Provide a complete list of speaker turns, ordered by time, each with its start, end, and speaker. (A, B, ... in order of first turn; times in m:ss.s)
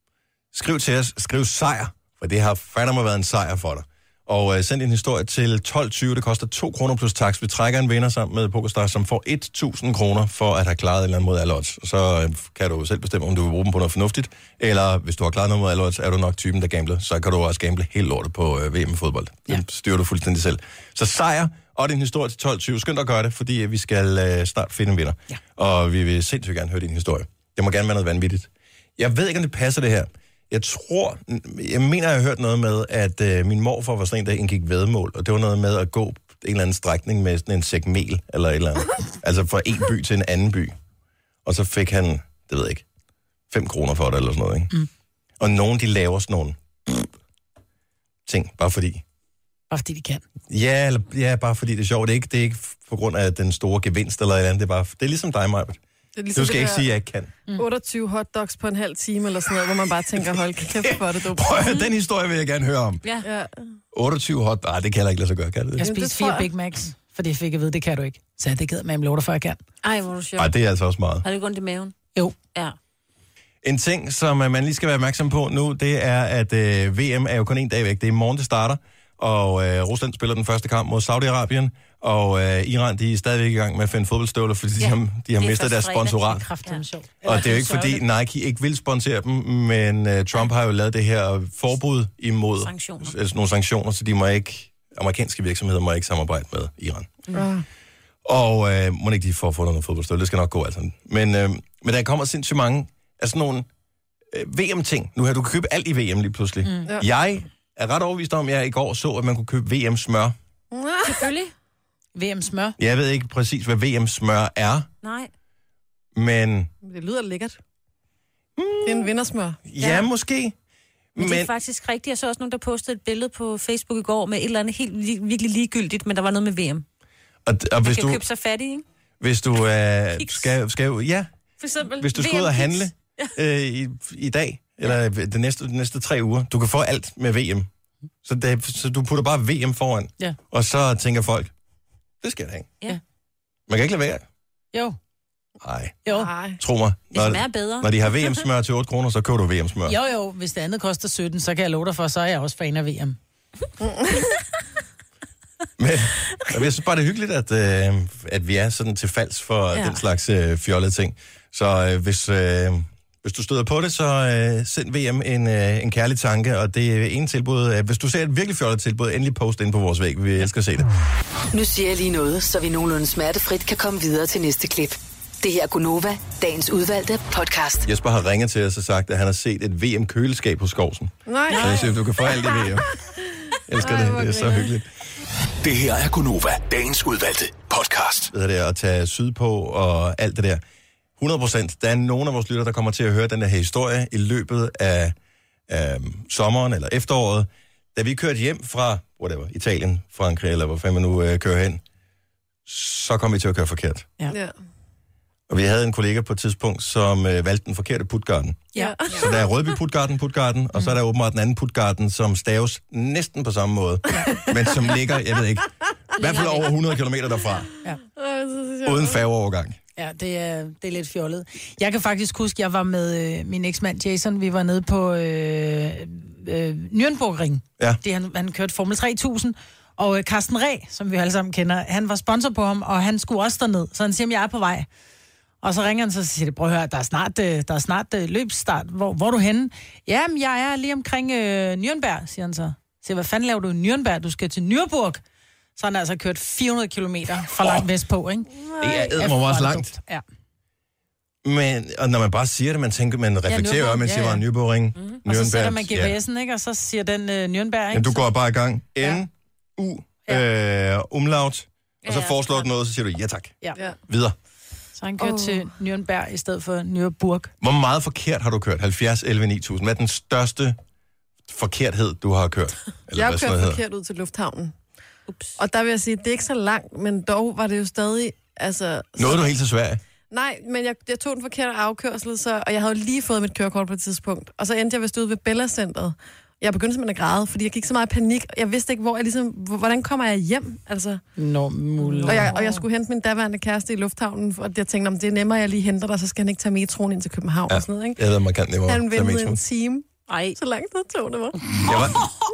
0:00.5-0:40.8 A
0:41.4-0:42.8 A
0:43.5-0:44.7 A
0:45.4-0:47.1 A
0:48.3-0:49.0 A
0:49.7-0:50.2 B
0:50.5-0:55.8 A
0:56.2-0:56.9 C
0:56.3-0:57.3 A
0:57.5-1:01.6 C
1:00.8-1:03.0 A
1:03.2-1:03.5 C
1:03.9-1:05.9 A
1:05.8-1:09.6 B
1:05.8-1:06.5 C
1:09.8-1:10.6 D
1:10.4-1:11.2 A
1:11.2-1:12.0 D
1:13.6-1:26.4 A
1:24.8-1:26.8 D
1:26.3-1:28.0 B
1:27.2-1:37.2 A
1:32.6-1:33.2 D
1:37.3-1:37.6 C
1:38.2-1:43.7 A
1:44.3-1:50.4 A
1:50.7-1:51.3 C
1:51.1-1:51.5 D
1:52.2-1:52.8 B
1:52.8-1:54.9 A
1:55.0-1:55.3 D
1:56.2-1:56.7 A
1:56.8-1:57.6 C
1:58.6-1:59.1 A
1:58.8-1:59.6 C
1:59.6-2:00.6 A
1:59.8-2:00.1 D
2:01.2-2:01.5 A
2:01.2-2:06.8 D
2:07.5-2:08.2 A
2:07.8-2:08.8 D
2:09.2-2:11.3 A
2:10.2-2:10.5 D
2:11.6-2:13.3 D
2:12.0-2:17.7 A
2:18.2-2:21.5 A
2:22.2-2:22.7 A
2:23.7-2:24.2 A
2:25.6-2:26.1 A
2:26.1-2:26.6 C
2:26.6-2:30.0 A
2:27.1-2:28.3 D
2:29.9-2:33.2 B
2:33.8-2:34.2 C
2:35.8-2:50.9 A
2:51.5-2:57.9 E
2:57.8-3:03.0 A
3:01.3-3:02.6 C
3:01.5-3:01.8 D
3:03.2-3:04.7 C
3:03.7-3:04.9 A
3:05.6-3:08.3 F
3:08.3-3:10.6 A
3:11.2-3:15.2 A
3:15.7-3:21.8 A
3:22.7-3:24.1 A
3:25.5-3:37.7 A
3:28.8-3:29.5 C
3:36.2-3:36.7 D
3:38.2-3:39.2 C
3:38.8-3:39.8 A
3:40.0-3:54.9 B
3:55.6-4:05.2 B
4:05.8-4:08.5 B
4:07.6-4:07.8 A
4:08.8-4:09.0 C
4:08.8-4:09.9 A
4:09.1-4:10.2 B
4:11.4-4:16.2 A
4:13.5-4:14.4 B
4:15.2-4:18.3 B
4:17.9-4:24.4 A
4:22.0-4:22.7 D
4:25.0-4:27.5 B
4:25.2-4:25.6 C
4:27.6-4:30.8 A
4:31.5-4:33.8 A
4:33.2-4:34.8 C
4:35.3-4:35.6 D
4:35.6-4:39.5 C
4:39.2-4:40.0 A
4:40.3-4:51.2 C
4:51.4-4:52.6 B
4:52.0-4:52.8 D
4:52.3-4:58.2 C
4:57.7-4:59.6 A
4:58.9-5:01.9 C
5:00.3-5:00.6 D
5:01.8-5:02.2 A